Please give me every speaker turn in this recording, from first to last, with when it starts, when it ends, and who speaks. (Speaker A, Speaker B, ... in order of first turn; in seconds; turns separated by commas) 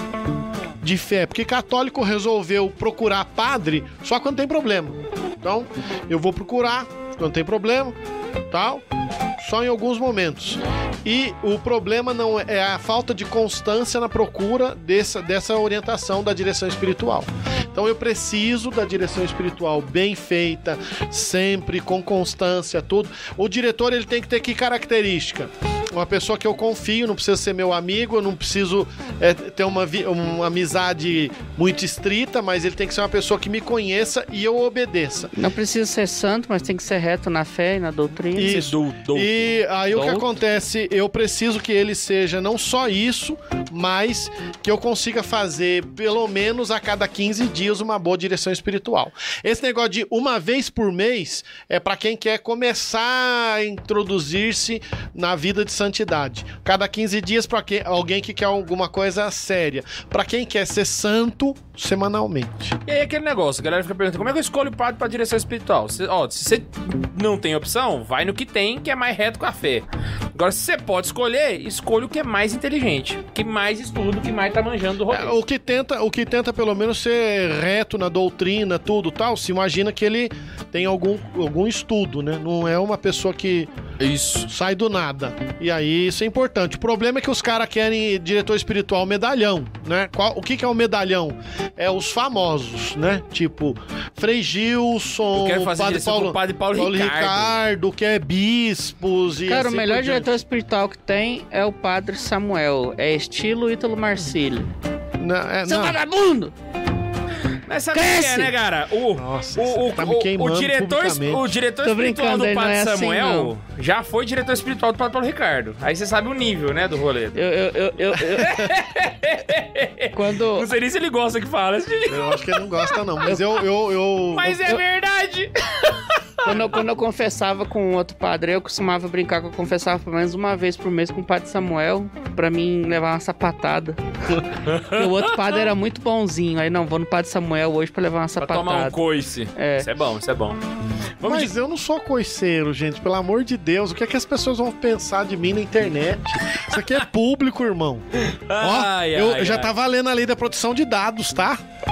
Speaker A: 0.8-7.9, Speaker A: 8.5-8.8, Speaker A: 9.4-35.3, Speaker B: 35.3-38.6, Speaker A: 38.3-62.8, Speaker C: 38.4-39.5, Speaker B: 39.9-40.3, Speaker C: 62.9-75.3, Speaker A: 75.1-83.7, Speaker C: 84.0-84.5, Speaker A: 84.5-100.4, Speaker C: 95.3-97.6, Speaker B: 99.5-104.7, Speaker A: 105.2-106.0, Speaker B: 105.6-106.5, Speaker C: 107.7-117.5, Speaker B: 107.9-108.5, Speaker A: 109.2-111.5, Speaker B: 111.8-113.5, Speaker B: 117.3-118.6, Speaker C: 118.2-123.0, Speaker B: 120.1-120.7, Speaker A: 122.1-124.8, Speaker C: 124.3-126.8, Speaker B: 126.4-139.0, Speaker C: 134.6-135.7, Speaker C: 138.4-140.6, Speaker B: 139.5-139.9, Speaker C: 141.2-141.5, Speaker A: 141.2-148.0, Speaker C: 148.2-149.7, Speaker A: 148.6-151.6